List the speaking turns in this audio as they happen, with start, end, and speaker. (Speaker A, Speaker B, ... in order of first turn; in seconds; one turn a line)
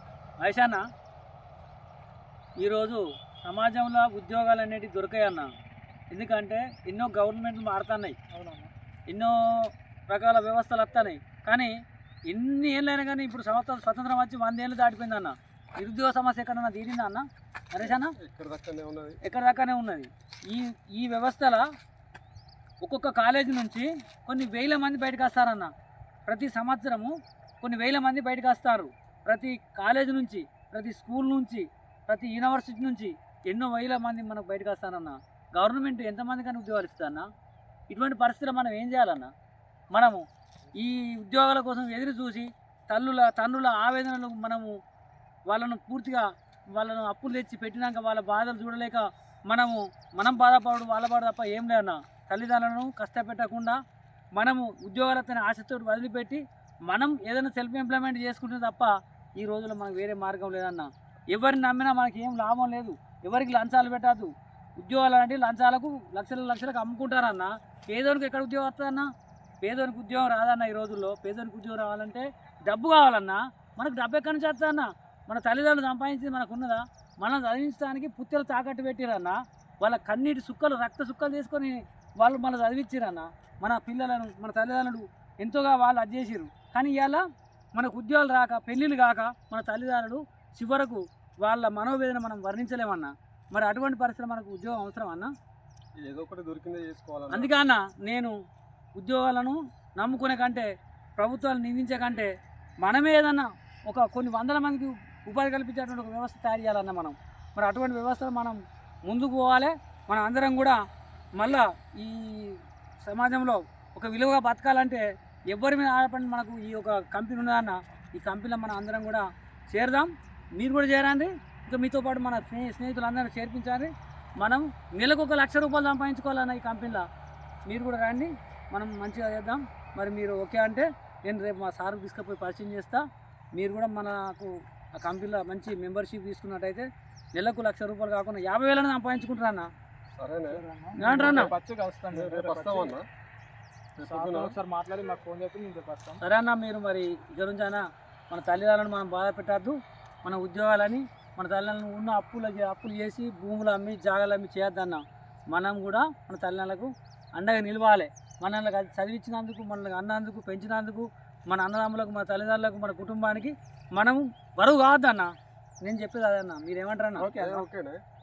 Speaker A: 0.4-0.8
Speaker A: 2.6-5.5
Speaker A: 6.1-8.2
Speaker B: 8.3-8.7
Speaker A: 10.1-11.7
Speaker A: 12.3-18.1
Speaker C: 17.8-19.2
Speaker A: 19.2-21.6
Speaker A: 22.8-25.7
Speaker A: 26.3-37.3
Speaker A: 37.9-39.3
Speaker A: 39.9-40.2
Speaker A: 40.8-44.7
Speaker A: 45.5-53.8
Speaker A: 54.4-69.1
Speaker A: 69.6-87.2
Speaker A: 87.8-95.3
Speaker C: 96.0-97.5
Speaker A: 97.3-98.3
Speaker A: 99.0-100.7
Speaker A: 101.2-102.3
Speaker A: 102.8-110.8
Speaker A: 111.4-127.0
Speaker A: 127.7-133.0
Speaker A: 133.6-139.7
Speaker C: 140.1-140.6
Speaker B: 140.5-143.0
Speaker A: 141.0-141.5
Speaker C: 141.2-141.4
Speaker C: 142.1-143.1
Speaker C: 144.0-144.6
Speaker B: 144.0-146.2
Speaker A: 146.2-165.3
Speaker A: 165.8-167.3
Speaker B: 167.2-167.7
Speaker C: 167.3-168.0